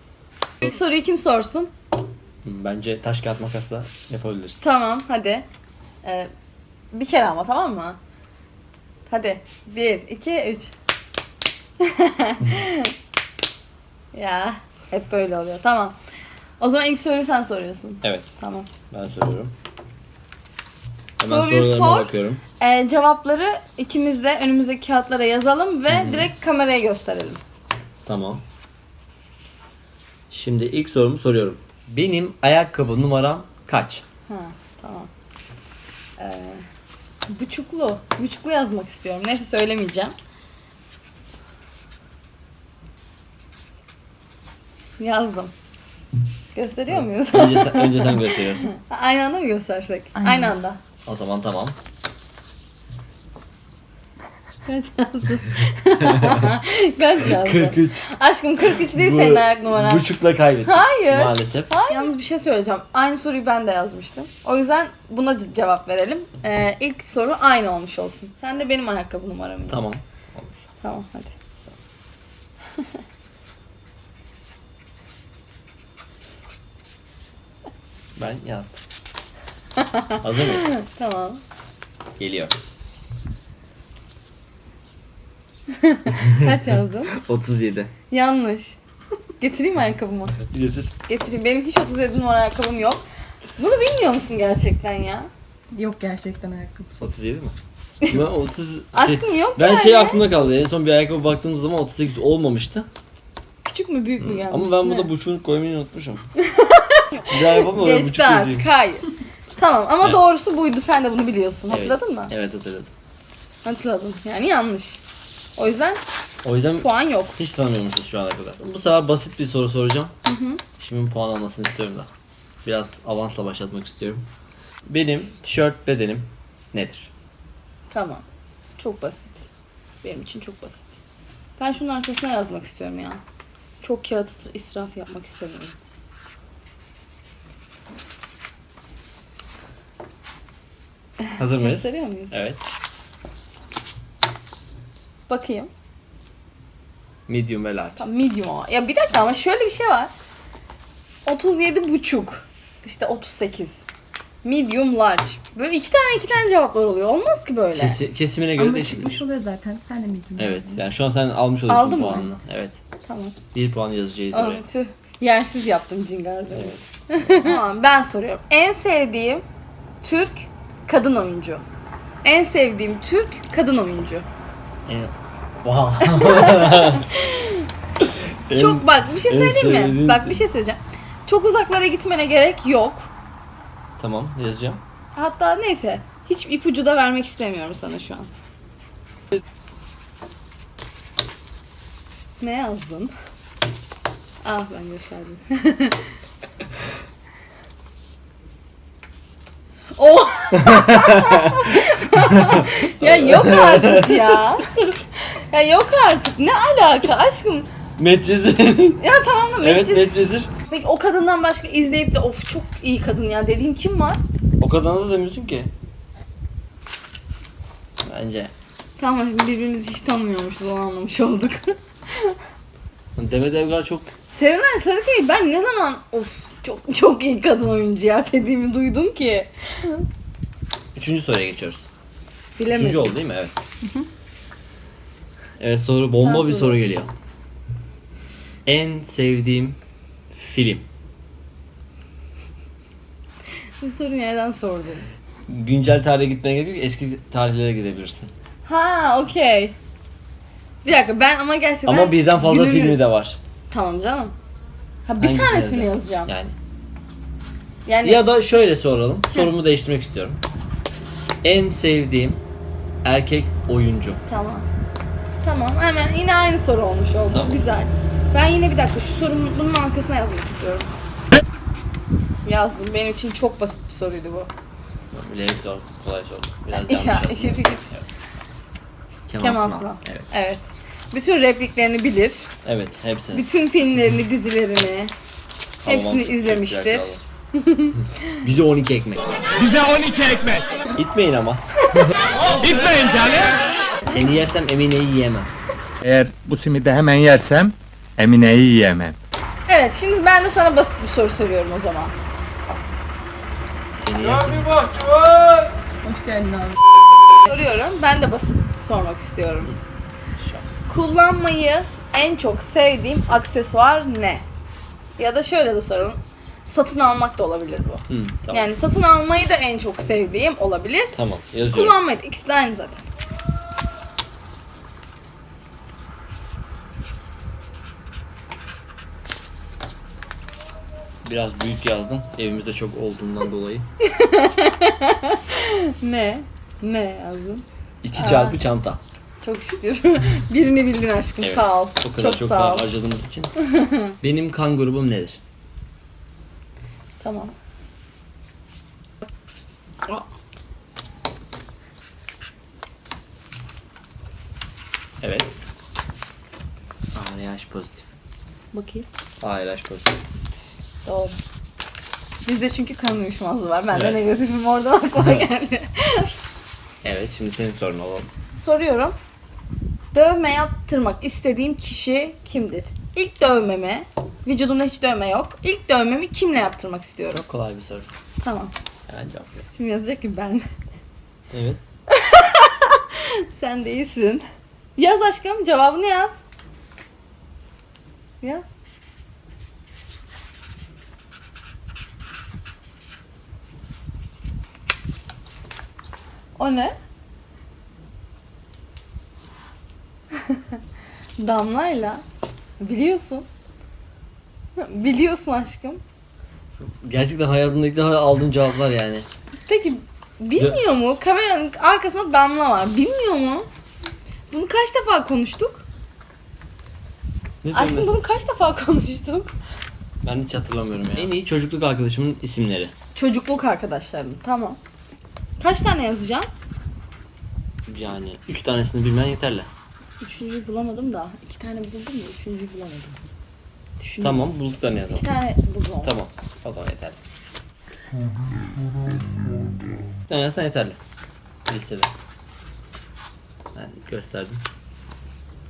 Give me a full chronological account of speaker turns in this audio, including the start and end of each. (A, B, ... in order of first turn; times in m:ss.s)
0:00.6-0:01.7 A
0:02.4-0:04.6 B
0:04.6-0:05.4 A
0:06.0-0:06.3 A
0:06.9-0:08.0 A
0:09.1-0:10.7 A
0:11.8-0:12.9 A
0:14.1-0:16.0 A
0:16.6-0:18.7 A
0:18.0-0:18.3 B
0:18.9-0:19.5 B
0:21.2-0:22.4 B
0:21.2-0:27.4 A
0:25.9-0:26.3 B
0:28.0-0:28.4 B
0:30.3-0:34.0 B
0:34.3-0:35.1 A
0:36.2-0:36.6 A
0:37.3-0:40.1 A
0:45.0-0:45.5 A
0:46.6-0:50.8 A
0:46.9-0:48.7 B
0:50.2-0:50.6 C
0:51.0-0:51.8 B
0:54.6-1:00.0 A
0:56.0-0:56.5 B
0:57.2-0:58.1 B
0:58.6-1:01.7 B
1:00.6-1:09.8 A
1:09.7-1:10.6 B
1:10.8-1:11.3 A
1:18.2-1:18.8 B
1:19.8-1:21.4 A
1:20.2-1:20.7 B
1:22.2-1:22.6 B
1:25.8-1:27.1 A
1:27.1-1:27.9 B
1:28.1-1:28.8 A
1:29.4-1:30.4 A
1:30.5-1:30.9 B
1:31.1-1:33.0 A
1:33.6-1:35.3 A
1:35.7-1:36.9 C
1:37.0-1:37.6 B
1:38.1-1:42.9 B
1:38.9-1:40.2 A
1:43.6-1:45.1 A
1:44.2-1:46.2 B
1:46.4-1:52.3 A
1:47.3-1:48.7 B
1:51.7-1:52.9 B
1:53.6-1:55.0 A
1:55.6-1:56.0 A
1:56.4-2:00.1 B
1:56.8-1:57.3 A
2:00.2-2:00.6 A
2:00.8-2:02.1 B
2:02.6-2:04.2 B
2:04.9-2:07.1 B
2:07.9-2:08.2 A
2:08.8-2:09.5 A
2:10.0-2:10.9 A
2:11.6-2:13.2 A
2:13.8-2:15.8 A
2:21.4-2:22.6 B
2:21.4-2:22.4 A
2:25.3-2:25.7 A
2:27.3-2:28.0 B
2:28.0-2:30.1 A
2:31.3-2:33.8 A
2:34.4-2:38.0 A
2:37.8-2:39.2 B
2:38.6-2:40.8 C
2:40.4-2:42.8 B
2:41.7-2:42.3 A
2:43.0-2:43.4 A
2:43.5-2:44.6 B
2:44.3-2:49.4 A
2:46.5-2:46.8 B
2:50.0-2:51.6 A
2:52.2-2:54.3 A
2:54.9-2:55.1 B
2:55.6-2:57.1 B
2:56.0-2:57.7 A
2:58.0-3:00.4 B
2:58.5-3:03.1 A
3:04.0-3:04.8 B
3:05.2-3:08.3 A
3:12.4-3:13.1 A
3:14.4-3:16.1 A
3:20.0-3:27.7 A
3:20.5-3:21.7 B
3:22.3-3:24.8 B
3:28.0-3:29.0 B
3:29.0-3:34.2 A
3:29.6-3:30.5 B
3:34.6-3:35.7 B
3:38.0-3:38.5 B
3:39.0-3:42.4 A
3:43.2-3:44.1 B
3:44.3-3:50.1 A
3:50.9-3:51.9 B
3:52.6-3:53.2 A
3:52.7-3:53.6 B
3:55.6-3:57.1 B
3:56.1-3:56.9 A
3:58.7-3:59.8 B
4:00.3-4:00.8 B
4:03.8-4:05.1 A
4:05.5-4:08.3 B
4:08.6-4:09.8 A
4:10.8-4:13.1 A
4:11.9-4:13.4 B
4:13.7-4:14.4 A
4:15.1-4:16.3 A
4:15.2-4:16.6 B
4:17.9-4:18.2 A
4:18.0-4:20.4 B
4:21.4-4:22.4 B
4:23.0-4:24.2 B
4:24.2-4:24.7 A
4:25.4-4:30.9 A
4:27.3-4:27.6 B
4:32.4-4:34.5 A
4:35.1-4:38.1 B
4:36.7-4:37.9 A
4:39.3-4:40.4 B
4:39.4-4:42.5 A
4:42.6-4:43.4 B
4:43.3-4:45.1 A
4:45.8-4:47.2 B
4:45.9-4:48.4 A
4:48.4-4:49.3 B
4:49.6-4:50.7 D
4:50.9-4:52.1 B
4:52.6-4:53.6 D
4:54.0-4:55.5 B
4:56.0-4:59.2 D
4:59.7-5:02.1 A
5:03.9-5:05.1 B
5:05.2-5:05.5 D
5:06.0-5:06.8 C
5:07.4-5:09.8 A
5:10.4-5:10.7 B
5:10.9-5:14.4 A
5:15.2-5:21.2 A
5:18.1-5:18.7 B
5:21.1-5:22.0 B
5:21.7-5:23.0 A
5:31.2-5:33.8 B
5:34.0-5:38.6 A
5:38.0-5:39.0 B
5:39.4-5:42.9 A
5:41.4-5:43.5 B
5:43.6-5:44.2 A
5:44.2-5:45.4 B
5:47.2-5:47.5 A
5:55.2-5:55.6 B
5:57.1-5:58.0 B
5:58.7-5:59.0 C
5:59.4-6:00.2 B
6:01.0-6:01.4 A
6:02.4-6:06.3 A
6:03.9-6:04.2 B
6:05.2-6:05.4 B
6:07.0-6:08.3 B
6:08.5-6:09.2 A
6:10.1-6:17.4 A
6:17.3-6:18.1 B
6:18.4-6:18.7 A
6:19.1-6:19.7 B
6:19.8-6:20.6 A
6:21.5-6:21.8 B
6:22.1-6:24.4 A
6:25.0-6:26.4 A
6:28.4-6:28.7 A
6:36.6-6:37.0 A
6:40.5-6:40.8 A
6:41.4-6:42.2 A
6:42.8-6:43.4 A
6:44.8-6:46.0 A
6:46.8-6:49.3 B
6:49.7-6:53.7 A
6:54.5-6:55.8 A
6:57.6-6:58.2 B
6:57.7-6:59.5 A
7:00.2-7:02.9 B
7:03.2-7:04.8 A
7:05.6-7:06.5 A
7:07.9-7:09.7 B
7:10.2-7:13.2 A
7:14.0-7:14.5 A
7:14.2-7:15.3 B
7:15.1-7:16.2 A
7:16.0-7:17.2 B
7:20.3-7:21.0 B
7:21.7-7:22.1 B
7:23.8-7:24.6 B